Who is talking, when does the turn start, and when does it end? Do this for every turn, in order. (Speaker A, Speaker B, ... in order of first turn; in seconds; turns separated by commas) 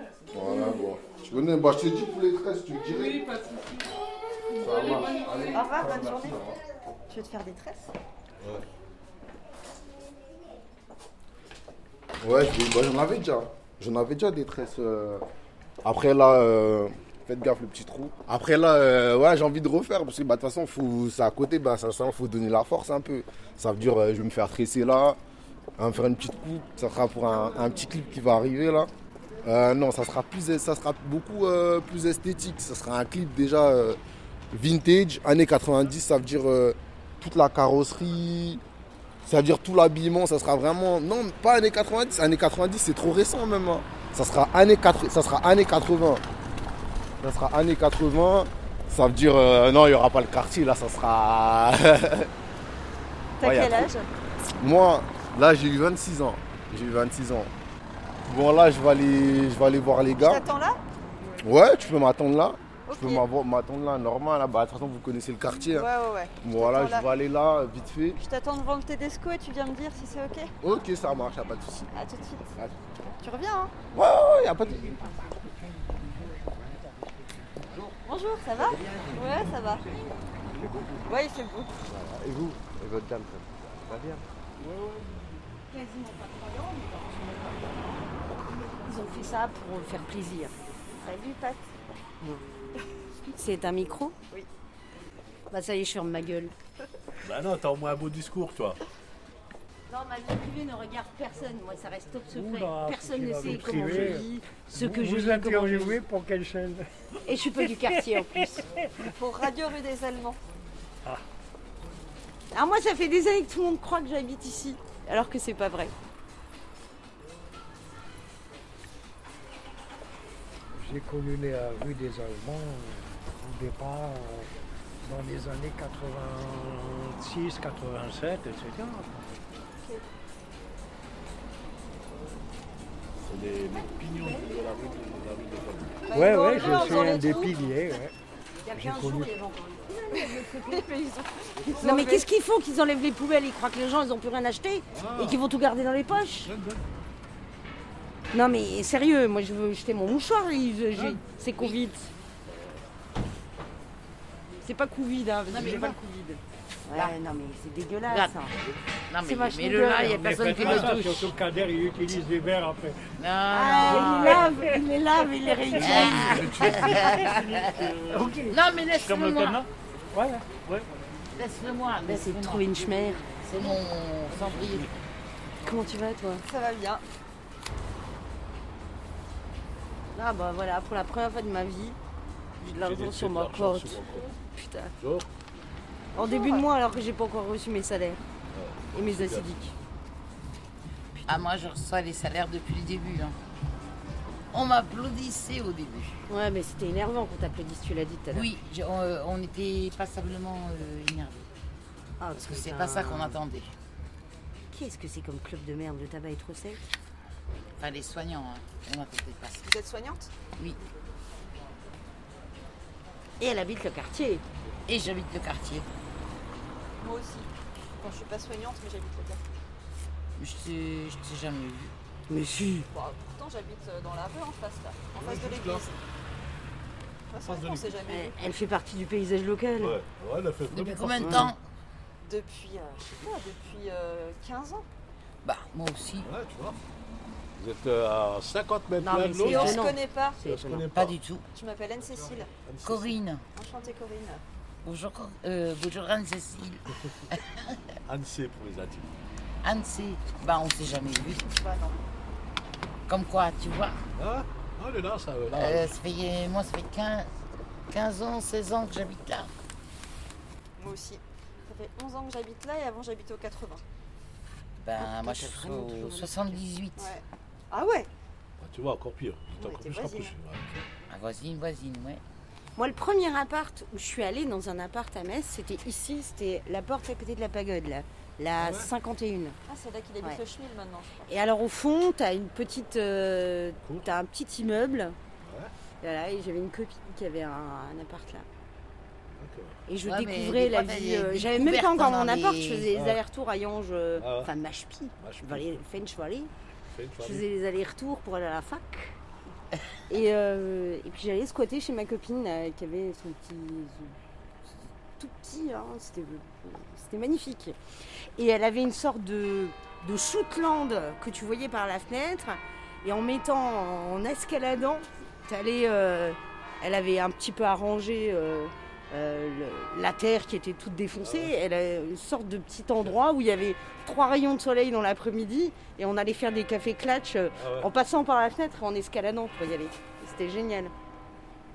Speaker A: 0.3-3.7, Speaker A: 4.5-6.6, Speaker B: 5.5-6.4, Speaker B: 7.1-7.9, Speaker A: 12.2-15.3, Speaker A: 15.8-25.2, Speaker A: 25.8-28.9, Speaker A: 29.4-34.0, Speaker A: 34.5-38.6, Speaker A: 39.2-46.2, Speaker A: 47.2-52.3, Speaker B: 53.4-54.1, Speaker A: 53.4-54.0, Speaker A: 54.6-57.5, Speaker A: 58.3-60.5, Speaker B: 60.2-60.8, Speaker A: 61.4-65.9, Speaker B: 62.9-63.2, Speaker B: 65.7-67.1, Speaker A: 66.4-68.2, Speaker B: 68.2-70.5, Speaker A: 70.6-71.9, Speaker B: 71.9-72.5, Speaker B: 73.2-73.7, Speaker A: 73.9-75.4, Speaker C: 77.6-78.0, Speaker B: 78.0-79.8, Speaker C: 78.7-79.5, Speaker C: 80.4-81.1, Speaker B: 81.1-81.7, Speaker C: 81.9-85.1, Speaker D: 85.7-87.9, Speaker D: 88.7-91.7, Speaker D: 93.2-94.1, Speaker D: 95.5-96.5, Speaker E: 97.2-98.8, Speaker D: 99.9-106.0, Speaker F: 102.3-106.9, Speaker D: 107.2-108.6, Speaker F: 107.6-108.9, Speaker B: 109.0-110.4, Speaker D: 112.5-115.9, Speaker F: 120.8-124.5, Speaker F: 125.0-129.4, Speaker E: 133.2-136.1, Speaker B: 136.1-137.8, Speaker F: 136.1-138.1, Speaker D: 136.6-137.5, Speaker D: 138.7-140.9, Speaker F: 138.7-139.4, Speaker B: 140.3-142.3, Speaker D: 141.7-146.5, Speaker E: 144.9-145.4, Speaker E: 146.1-146.8, Speaker D: 148.3-152.8, Speaker E: 150.9-151.2, Speaker D: 154.6-158.6, Speaker G: 155.5-155.9, Speaker E: 155.6-155.9, Speaker G: 158.1-158.4, Speaker G: 159.1-161.3, Speaker D: 159.2-160.6, Speaker F: 160.0-163.0, Speaker G: 163.2-164.5, Speaker D: 163.5-166.6, Speaker G: 165.8-167.9, Speaker E: 165.8-168.4, Speaker F: 167.0-167.3, Speaker F: 168.1-168.6, Speaker G: 168.5-169.6, Speaker E: 168.9-169.7, Speaker F: 170.1-170.8, Speaker G: 171.4-174.9, Speaker D: 172.1-173.8, Speaker D: 175.6-176.4, Speaker B: 176.5-177.0, Speaker D: 180.1-182.0, Speaker D: 182.6-184.9, Speaker E: 182.6-184.3, Speaker E: 185.0-185.3, Speaker D: 186.1-188.2, Speaker B: 186.2-186.7, Speaker E: 188.5-189.5, Speaker D: 188.9-189.8, Speaker G: 191.3-193.4, Speaker G: 194.5-196.2, Speaker D: 196.3-198.5, Speaker G: 198.3-201.5, Speaker D: 202.2-203.4, Speaker G: 202.3-203.8, Speaker D: 204.7-206.8, Speaker G: 207.8-209.7, Speaker B: 209.6-210.3, Speaker D: 213.4-214.4, Speaker G: 214.9-215.9, Speaker B: 217.0-219.4, Speaker G: 220.4-221.9, Speaker D: 222.3-222.9, Speaker B: 222.9-226.0, Speaker E: 225.1-225.9, Speaker B: 227.3-228.4, Speaker E: 227.4-228.0, Speaker D: 228.1-230.0, Speaker E: 229.8-231.5, Speaker G: 230.7-231.6, Speaker D: 231.2-231.5, Speaker B: 232.2-234.9, Speaker G: 235.4-236.3, Speaker E: 236.2-236.8, Speaker E: 237.6-241.2, Speaker D: 239.0-240.9, Speaker B: 239.4-240.4, Speaker G: 240.9-241.4, Speaker B: 241.5-242.5, Speaker E: 242.6-243.2, Speaker G: 242.8-243.4, Speaker B: 243.6-244.4, Speaker G: 244.8-247.8, Speaker E: 248.1-249.1, Speaker G: 249.6-251.4, Speaker B: 251.4-252.0, Speaker G: 253.1-254.0, Speaker E: 254.2-256.0, Speaker G: 255.5-257.3, Speaker G: 257.9-259.5, Speaker B: 260.8-263.8, Speaker G: 264.8-267.2, Speaker D: 265.0-266.6, Speaker B: 267.0-268.1, Speaker E: 268.6-270.9, Speaker B: 269.6-270.3, Speaker G: 271.1-272.2, Speaker D: 272.8-279.6, Speaker E: 278.6-278.9, Speaker B: 279.7-281.3, Speaker D: 281.3-285.2, Speaker E: 283.8-284.1, Speaker E: 285.4-285.7, Speaker D: 286.0-288.5, Speaker E: 289.3-289.8, Speaker D: 289.9-296.5, Speaker G: 290.1-292.9, Speaker E: 292.9-293.2, Speaker E: 294.2-294.5, Speaker E: 295.2-295.8, Speaker E: 296.9-297.4, Speaker D: 297.2-299.2, Speaker D: 300.1-304.1, Speaker D: 305.2-307.8, Speaker D: 308.4-330.9, Speaker E: 321.2-321.5, Speaker E: 327.5-327.9